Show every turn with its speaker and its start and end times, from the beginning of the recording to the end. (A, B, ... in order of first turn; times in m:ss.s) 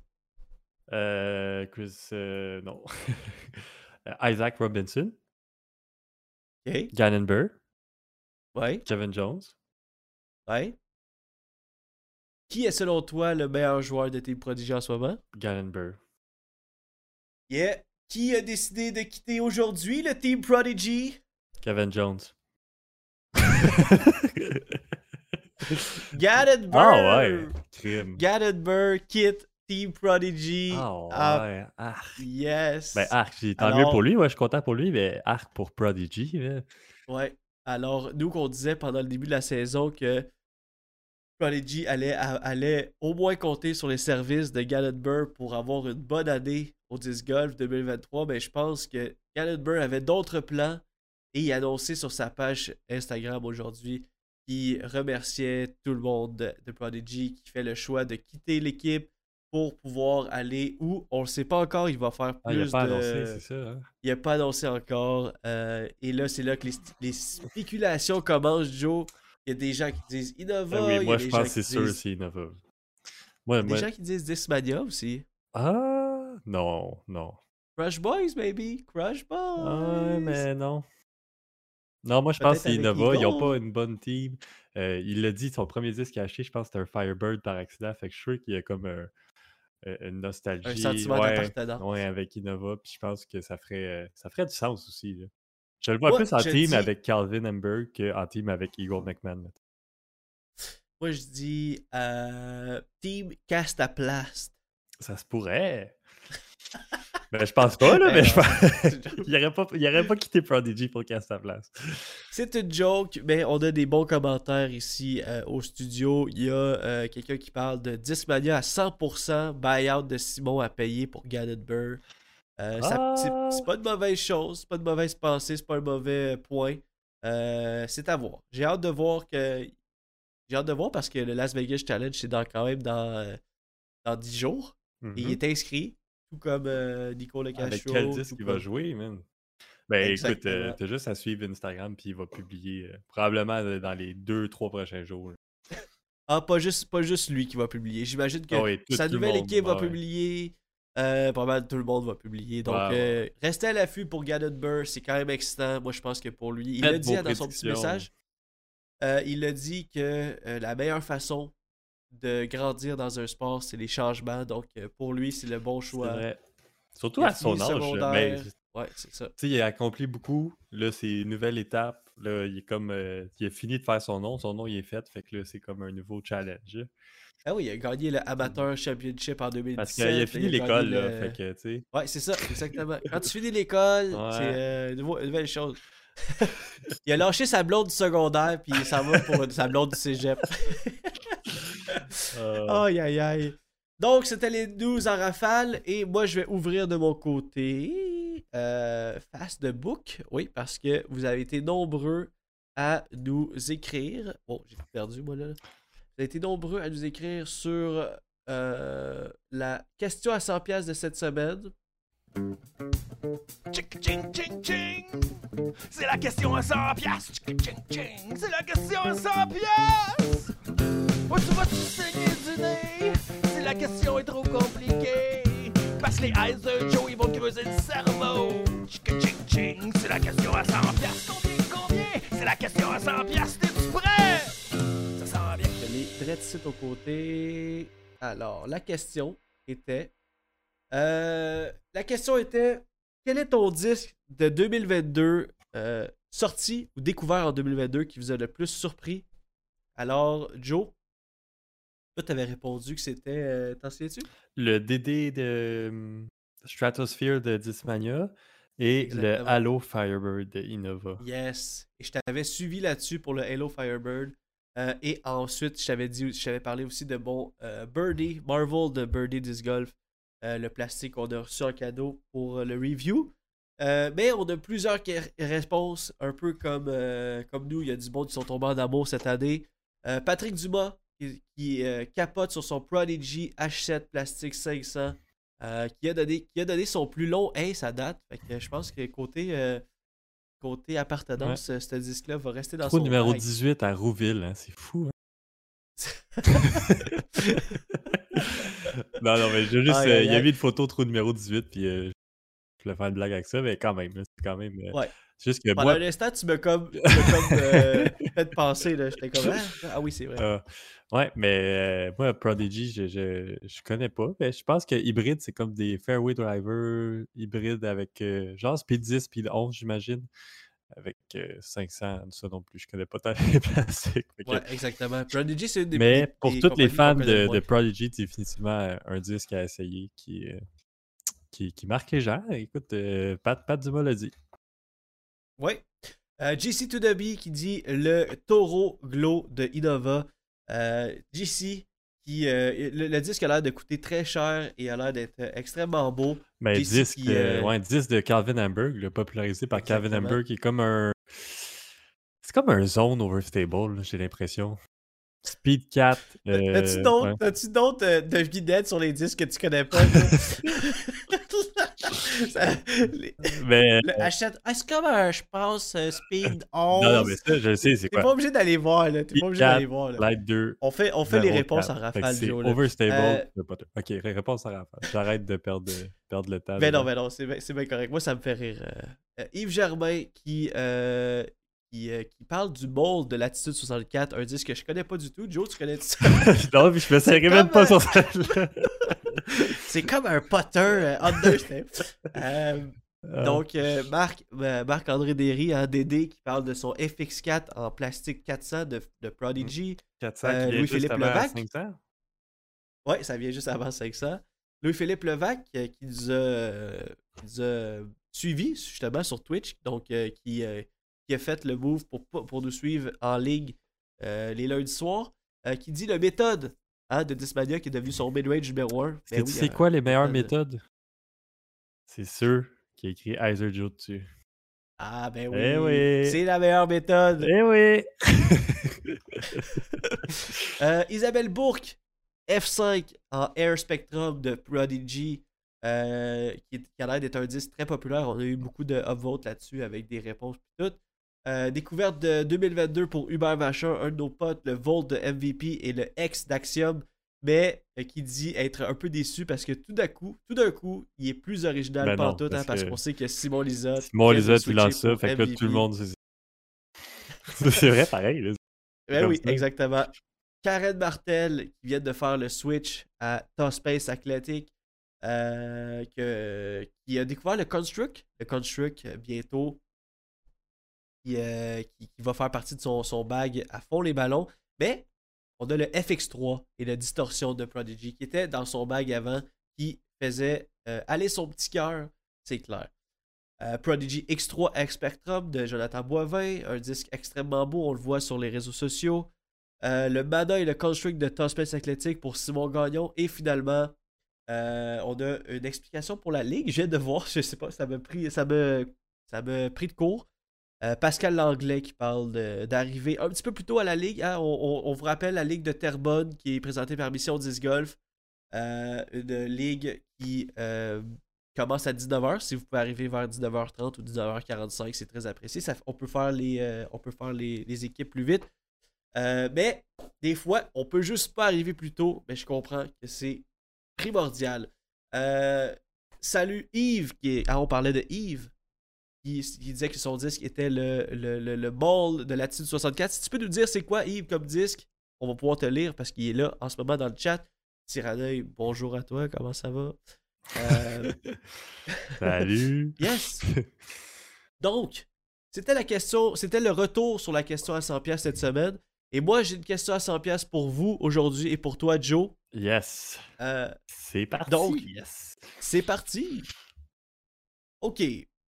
0:00.9-0:05.2 A
0:06.6-0:06.9 B
0:06.9-0:07.6 A
0:08.5-0:08.8 B
0:08.8-0:09.5 A
0:10.5-0:10.8 B
0:12.5-0:15.2 B
0:15.3-0:16.0 A
0:17.5-0:21.2 B
0:21.6-0:22.3 A
0:23.4-0:24.8 A
0:25.8-0:26.0 A
0:26.1-0:27.6 B
0:26.7-0:28.2 A
0:28.2-0:31.4 B
0:30.7-0:32.2 A
0:32.2-0:34.0 B
0:32.9-0:36.7 A
0:37.1-0:40.2 B
0:41.4-0:50.8 B
0:51.3-1:03.4 B
1:02.4-1:03.9 A
1:04.0-1:12.0 B
1:10.7-1:12.6 A
1:13.4-1:13.9 A
1:13.6-1:15.2 B
1:15.5-1:17.4 A
1:17.8-1:20.4 B
1:19.6-1:20.8 A
1:22.0-1:29.1 A
1:22.4-1:23.6 B
1:29.8-1:35.3 A
1:30.6-1:31.8 B
1:35.8-1:39.6 A
1:36.0-1:36.9 B
1:41.0-1:44.5 B
1:45.0-1:46.0 A
1:47.3-1:52.2 A
1:47.9-1:49.2 B
1:52.3-2:02.0 B
2:02.6-2:09.7 B
2:02.8-2:03.7 A
2:10.5-2:13.4 B
2:14.0-2:18.6 B
2:15.0-2:15.4 A
2:17.5-2:19.2 A
2:19.9-2:25.4 A
2:20.0-2:20.8 B
2:26.3-2:38.1 B
2:28.5-2:30.0 A
2:32.6-2:33.2 A
2:36.8-2:38.1 A
2:39.0-2:41.5 B
2:42.1-2:46.2 B
2:45.9-2:46.4 A
2:46.9-2:48.5 A
2:47.2-2:49.3 B
2:49.4-2:56.9 A
2:57.4-3:01.4 B
2:59.8-3:01.8 A
3:01.9-3:06.5 B
3:04.1-3:04.6 A
3:07.0-3:25.6 B
3:12.3-3:12.8 A
3:26.2-3:31.7 B
3:33.7-3:35.4 C
3:35.9-3:40.5 C
3:41.3-3:54.5 C
3:55.2-3:55.8 C
3:55.8-4:00.1 B
4:00.9-4:09.2 B
4:10.0-4:10.9 B
4:12.2-4:14.2 B
4:14.6-4:21.2 A
4:19.0-4:19.6 B
4:21.2-4:49.8 B
4:50.6-4:53.4 B
4:52.8-4:55.1 A
4:56.0-4:56.8 B
4:56.6-4:57.1 A
4:58.1-5:02.1 A
4:59.8-5:00.5 B
5:02.8-5:06.0 A
5:05.8-5:10.4 B
5:10.4-5:20.3 A
5:20.9-5:24.6 A
5:24.4-5:27.6 B
5:25.9-5:30.6 A
5:31.5-5:34.3 A
5:35.6-5:47.7 B
5:46.6-5:51.8 A
5:49.7-5:50.4 B
5:52.4-5:54.8 A
5:55.4-5:57.4 A
5:56.5-6:07.4 B
6:00.1-6:00.7 A
6:03.4-6:04.3 A
6:06.9-6:08.3 A
6:08.1-6:10.2 B
6:09.3-6:17.1 A
6:10.8-6:13.4 B
6:16.8-6:26.5 B
6:26.2-6:29.7 A
6:27.2-6:29.1 B
6:29.7-6:41.6 B
6:33.2-6:33.6 A
6:39.6-6:42.0 A
6:43.0-7:00.5 B
6:59.3-7:00.8 A
7:02.1-7:04.3 A
7:05.0-7:07.5 B
7:05.5-7:06.4 A
7:07.4-7:10.3 A
7:10.7-7:35.9 B
7:32.0-7:33.0 A
7:34.0-7:36.2 A
7:37.4-7:38.6 A
7:39.1-7:49.8 B
7:39.2-7:39.6 A
7:51.2-7:55.1 B
7:55.6-8:02.9 B
8:03.6-8:09.3 B
8:09.8-8:13.9 B
8:14.5-8:20.3 B
8:20.8-8:28.0 B
8:28.5-8:38.5 B
8:39.1-8:48.5 B
8:49.2-9:00.0 B
9:00.5-9:01.2 B
9:02.2-9:03.9 A
9:03.0-9:03.4 B
9:04.6-9:12.4 B
9:12.5-9:13.2 A
9:13.4-9:13.8 B
9:13.9-9:15.4 A
9:14.5-9:14.9 B
9:15.6-9:16.5 B
9:17.8-9:18.3 B